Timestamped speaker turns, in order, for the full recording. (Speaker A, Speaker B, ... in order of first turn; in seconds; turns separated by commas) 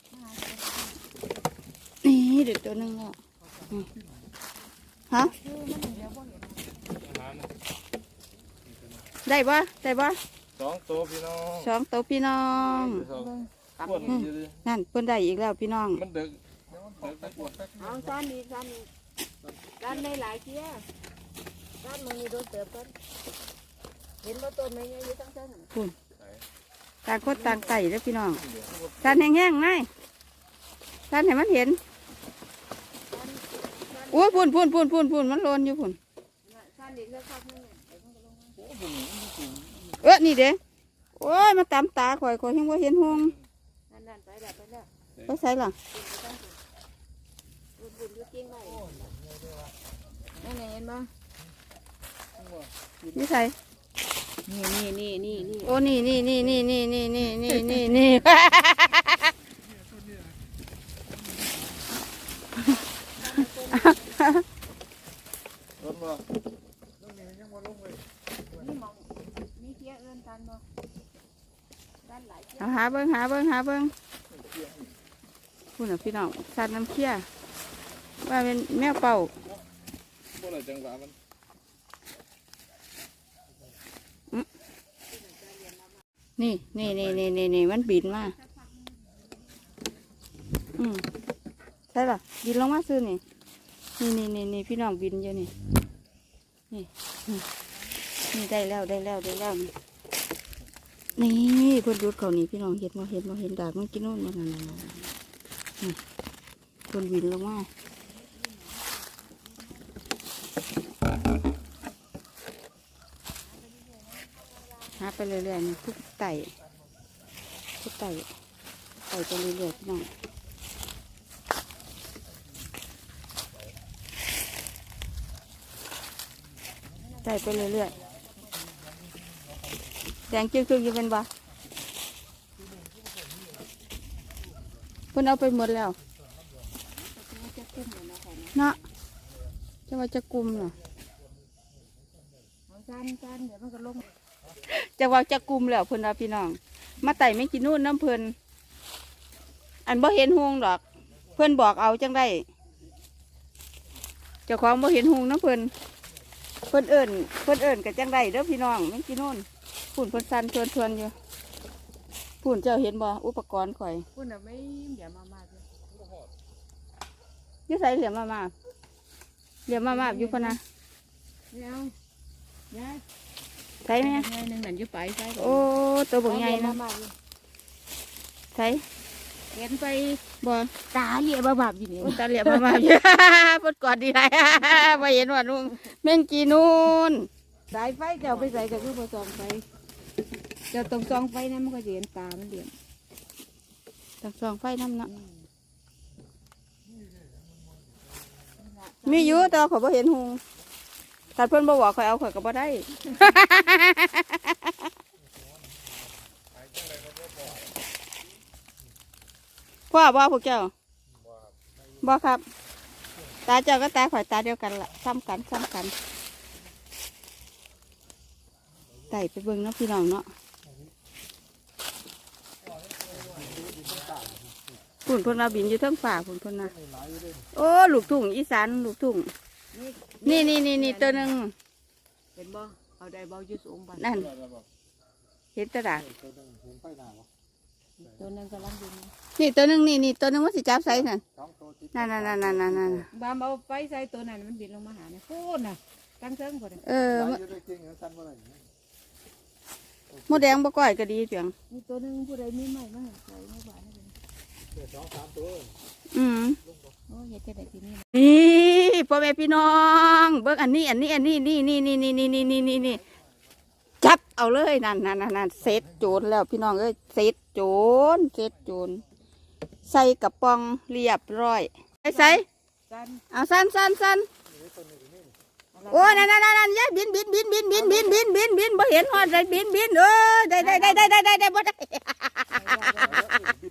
Speaker A: 0.1-1.0, Speaker B: 2.0-3.2, Speaker A: 5.1-6.9, Speaker C: 7.1-7.5, Speaker B: 9.2-10.2, Speaker C: 10.6-11.6, Speaker B: 11.5-13.1, Speaker A: 12.8-14.3, Speaker B: 14.1-16.1, Speaker C: 16.1-16.4, Speaker C: 17.0-17.7, Speaker A: 17.8-18.9, Speaker A: 19.8-20.9, Speaker A: 21.8-22.9, Speaker A: 24.2-25.7, Speaker B: 27.1-28.4, Speaker A: 27.2-27.8, Speaker B: 29.0-29.9, Speaker B: 31.1-31.8, Speaker A: 33.1-34.5, Speaker B: 34.1-36.0, Speaker A: 36.5-38.6, Speaker C: 38.6-39.7, Speaker B: 40.0-40.6, Speaker B: 41.2-43.4, Speaker A: 43.9-44.9, Speaker B: 45.2-45.8, Speaker A: 45.9-46.6, Speaker A: 47.8-49.1, Speaker A: 50.4-51.1, Speaker B: 53.1-53.5, Speaker A: 54.5-55.8, Speaker B: 55.6-59.3, Speaker A: 57.5-57.8, Speaker A: 63.2-64.3, Speaker B: 63.7-64.4, Speaker C: 65.8-66.2, Speaker D: 67.2-67.9, Speaker A: 68.5-70.6, Speaker A: 72.0-73.0, Speaker B: 72.6-73.9, Speaker B: 75.8-77.3, Speaker B: 78.2-79.3, Speaker C: 80.4-81.1, Speaker A: 85.4-85.8, Speaker B: 86.4-88.3, Speaker B: 90.8-91.1, Speaker B: 91.9-93.2, Speaker B: 94.0-95.5, Speaker B: 96.7-97.5, Speaker B: 98.3-99.7, Speaker B: 101.2-105.0, Speaker B: 106.9-107.7, Speaker A: 108.4-108.8, Speaker A: 113.6-115.0, Speaker B: 115.0-116.5, Speaker B: 117.8-118.3, Speaker B: 119.1-120.1, Speaker A: 127.1-127.9, Speaker B: 127.2-127.9, Speaker B: 130.3-131.3, Speaker B: 135.1-136.0, Speaker A: 136.9-138.8, Speaker B: 139.9-140.8, Speaker A: 142.7-144.1, Speaker B: 144.7-148.3, Speaker B: 149.8-150.8, Speaker B: 151.3-152.5, Speaker B: 154.5-155.7, Speaker B: 156.7-161.1, Speaker B: 162.4-164.1, Speaker A: 164.1-165.7, Speaker B: 167.7-168.5, Speaker B: 169.7-170.6, Speaker A: 169.8-170.6, Speaker A: 171.5-171.9, Speaker A: 172.7-173.0, Speaker B: 173.8-174.3, Speaker A: 174.0-175.7, Speaker B: 175.4-176.8, Speaker A: 176.2-177.1, Speaker B: 178.5-178.8, Speaker A: 179.5-180.2, Speaker B: 180.4-180.7, Speaker A: 180.9-182.8, Speaker B: 182.0-187.3, Speaker A: 187.7-189.7, Speaker A: 190.7-192.8, Speaker B: 194.2-195.1, Speaker A: 195.1-195.4, Speaker A: 198.6-199.6, Speaker B: 199.1-200.4, Speaker B: 201.4-204.8, Speaker B: 209.9-210.7, Speaker B: 212.0-212.4, Speaker B: 213.5-215.9, Speaker B: 219.1-220.3, Speaker A: 223.4-223.7, Speaker D: 223.6-224.1, Speaker B: 225.1-226.8, Speaker B: 227.5-229.3, Speaker A: 229.7-231.3, Speaker B: 230.2-231.6, Speaker A: 232.4-234.2, Speaker B: 234.0-234.3, Speaker B: 235.6-236.1, Speaker D: 236.2-237.2, Speaker A: 238.0-239.1, Speaker B: 239.4-241.2, Speaker D: 241.4-242.6, Speaker B: 241.9-243.1, Speaker A: 243.1-246.8, Speaker B: 246.8-247.6, Speaker D: 247.5-248.5, Speaker B: 250.3-251.5, Speaker A: 251.7-254.2, Speaker D: 254.9-255.7, Speaker B: 256.1-256.6, Speaker A: 257.1-258.1, Speaker B: 258.1-263.0, Speaker B: 264.0-269.0, Speaker B: 269.9-272.4, Speaker A: 272.1-273.2, Speaker B: 273.3-274.3, Speaker D: 274.8-275.1, Speaker A: 275.7-276.3, Speaker B: 275.9-282.5, Speaker A: 280.6-281.2, Speaker A: 282.5-283.5